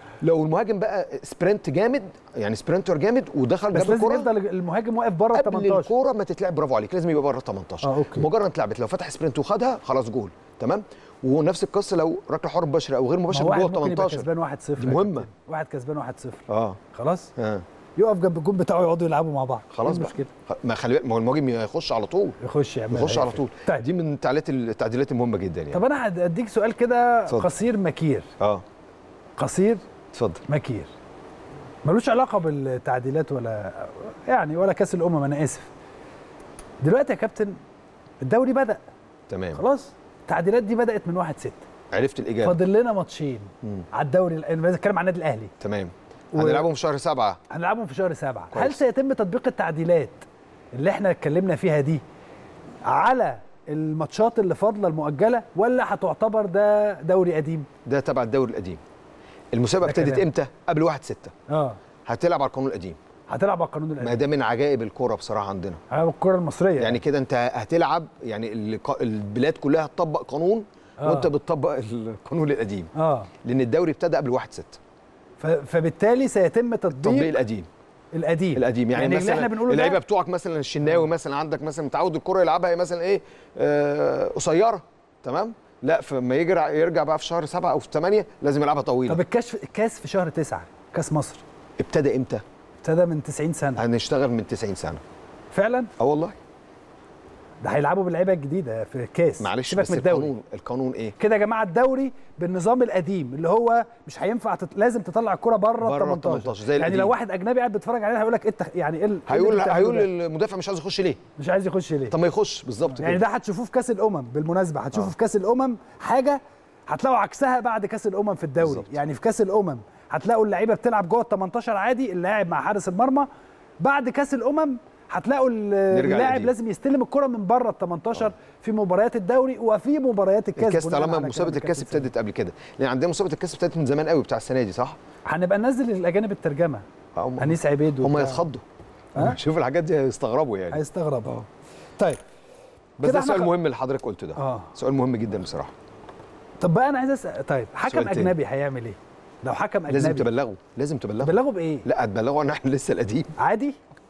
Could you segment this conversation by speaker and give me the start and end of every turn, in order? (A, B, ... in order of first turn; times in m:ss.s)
0:00.2-0:04.3 A
0:03.7-0:05.9 B
0:05.3-0:14.3 A
0:07.8-0:08.3 B
0:13.3-0:17.3 B
0:14.8-0:15.3 A
0:16.5-0:16.8 A
0:17.4-0:17.6 A
0:18.0-0:20.3 B
0:19.7-0:22.4 A
0:22.4-0:23.8 B
0:22.9-0:25.8 A
0:25.7-0:28.3 B
0:29.4-0:29.8 B
0:30.1-0:30.4 A
0:30.5-0:30.9 B
0:31.8-0:35.7 B
0:36.8-0:37.6 B
0:38.2-0:38.8 B
0:39.3-0:39.6 A
0:39.6-0:41.6 B
0:41.9-0:42.6 A
0:42.4-0:45.5 B
0:45.6-0:47.4 A
0:46.3-0:46.7 B
0:47.5-0:52.0 B
0:48.5-0:48.8 A
0:52.8-0:57.7 B
0:57.9-0:58.8 A
0:59.5-1:01.3 A
0:59.8-1:00.3 B
1:01.5-1:01.8 B
1:02.1-1:03.0 A
1:03.3-1:04.2 B
1:04.0-1:05.8 A
1:05.9-1:07.0 B
1:06.8-1:12.9 A
1:11.0-1:11.3 B
1:13.0-1:13.3 B
1:13.4-1:14.8 A
1:15.4-1:17.4 B
1:16.9-1:17.7 A
1:18.1-1:20.0 B
1:18.6-1:29.2 A
1:29.1-1:31.4 B
1:31.8-1:32.4 A
1:32.8-1:33.8 B
1:33.8-1:35.0 A
1:35.5-1:35.9 B
1:36.0-1:36.4 A
1:37.6-1:40.3 B
1:39.4-1:41.2 A
1:41.2-1:50.1 B
1:45.8-1:47.2 A
1:49.3-1:51.2 A
1:51.4-1:52.2 B
1:52.1-1:53.2 A
1:52.9-2:03.3 B
1:58.6-1:58.9 A
2:03.8-2:12.1 B
2:05.9-2:06.5 A
2:10.6-2:15.0 A
2:15.3-2:16.8 B
2:17.2-2:18.6 A
2:17.4-2:18.4 B
2:19.2-2:21.5 A
2:20.7-2:21.4 B
2:23.0-2:25.7 A
2:23.0-2:23.5 B
2:24.4-2:24.7 B
2:26.6-2:30.3 B
2:27.9-2:28.4 A
2:29.9-2:33.3 A
2:31.2-2:31.8 B
2:33.4-2:33.8 B